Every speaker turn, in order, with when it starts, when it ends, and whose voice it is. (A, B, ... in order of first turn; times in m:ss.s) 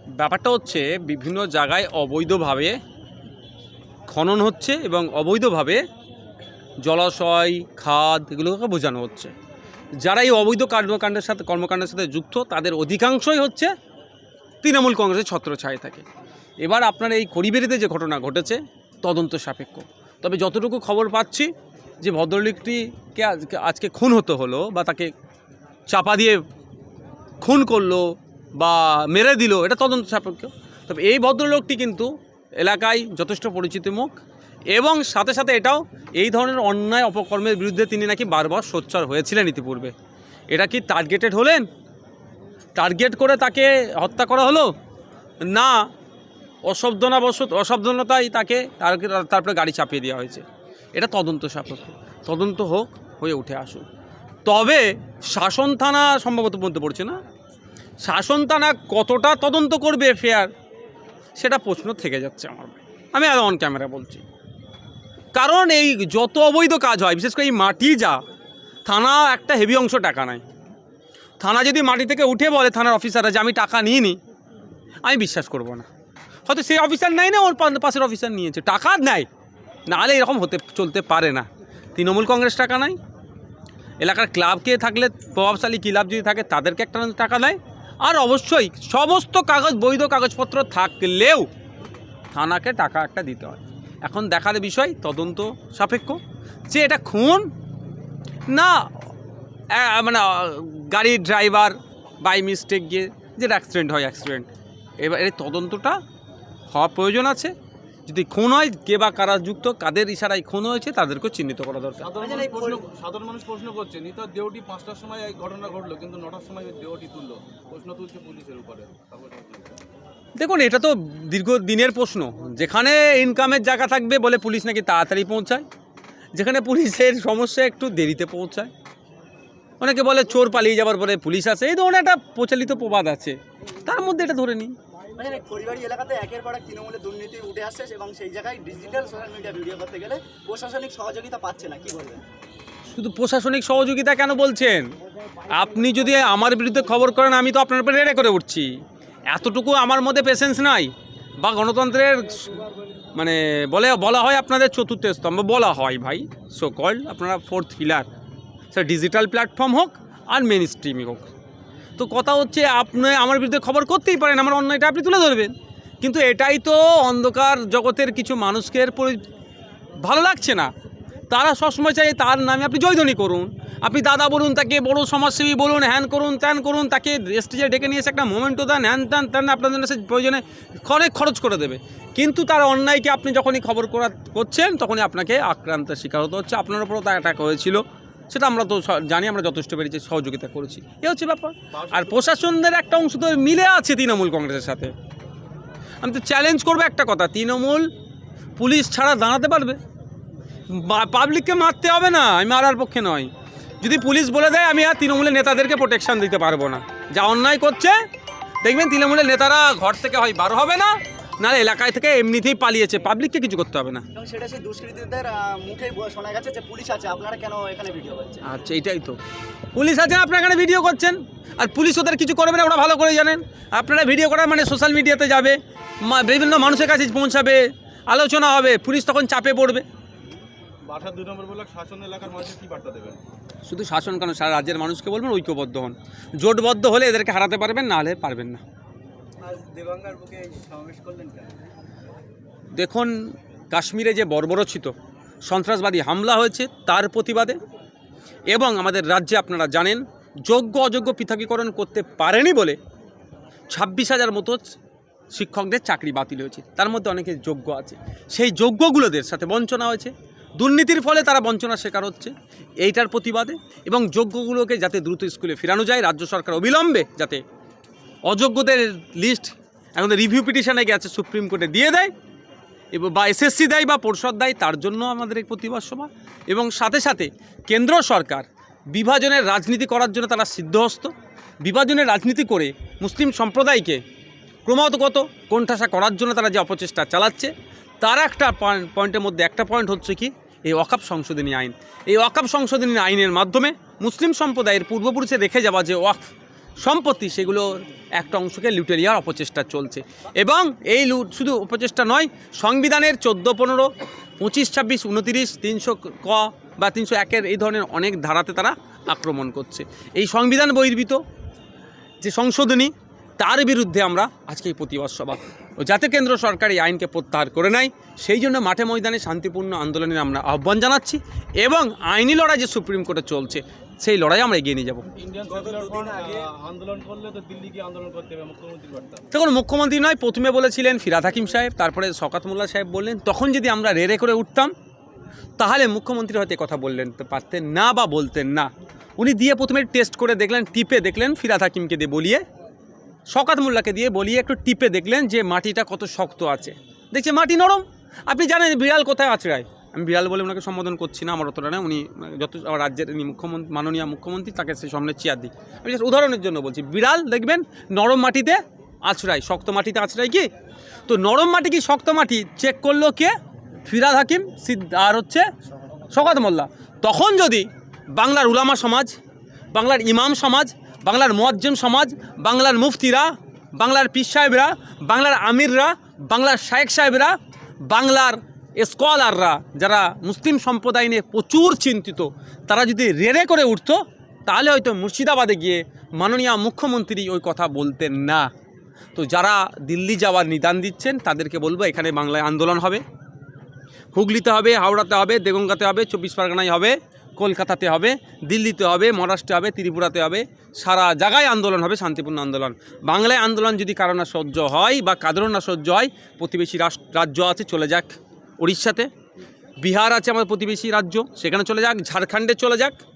0:00.2-0:02.8 A
0:04.1-0:05.8 A
0:06.8-0:09.3 A
0:10.0-0:13.7 A
0:14.6-0:16.0 A
0:16.6-0:25.1 A
0:25.9-0:26.4 A
0:27.4-0:34.2 A
0:34.7-0:39.9 A
0:40.5-0:41.7 A
0:42.8-0:44.7 A
0:45.4-0:45.9 A
0:46.6-0:50.4 A
0:51.0-0:53.8 A
0:54.5-0:57.2 A
0:58.0-1:00.5 A
1:01.4-1:04.2 A
1:05.3-1:08.2 A
1:08.8-1:10.4 A
1:11.4-1:14.2 A
1:15.0-1:15.9 A
1:16.5-1:19.3 A
1:19.9-1:23.0 A
1:24.0-1:31.5 A
1:32.3-1:37.5 A
1:38.5-1:38.9 A
1:39.7-1:44.5 A
1:45.0-1:46.0 A
1:46.7-1:47.5 A
1:48.1-1:52.1 A
1:52.0-1:59.8 B
1:52.2-1:52.8 C
2:00.4-2:05.6 A
2:06.3-2:08.7 A
2:09.8-2:14.8 A
2:15.2-2:22.2 C
2:22.9-2:24.9 A
2:25.5-2:28.7 A
2:29.3-2:38.1 A
2:38.7-2:41.3 A
2:42.0-2:49.2 A
2:50.0-2:50.7 A
2:51.3-3:14.9 A
3:11.7-3:12.2 B
3:16.0-3:17.9 A
3:18.6-3:19.8 A
3:20.7-3:23.3 A
3:23.8-3:28.0 A
3:28.6-3:34.0 A
3:34.1-3:38.4 C
3:38.4-3:39.2 A
3:39.8-3:49.8 A
3:50.8-3:53.2 B
3:53.7-3:58.6 A
3:59.4-4:01.5 C
4:02.7-4:03.1 A
4:03.7-4:04.9 A
4:05.4-4:07.6 A
4:08.5-4:12.8 A
4:13.7-4:14.6 A
4:15.3-4:27.4 A
4:28.2-4:32.1 A
4:32.9-4:44.0 A
4:44.6-4:56.2 A
4:56.8-5:11.2 A
5:12.2-5:25.1 A
5:25.2-5:29.2 B
5:25.5-5:26.4 C
5:29.3-5:34.7 A
5:35.6-5:42.4 A
5:43.3-6:00.5 A
6:01.1-6:03.3 A
6:03.9-6:05.5 A
6:06.1-6:09.1 A
6:09.7-6:17.3 A
6:17.8-6:28.5 A
6:29.2-6:33.0 A
6:34.1-6:49.1 A
6:49.8-6:53.0 A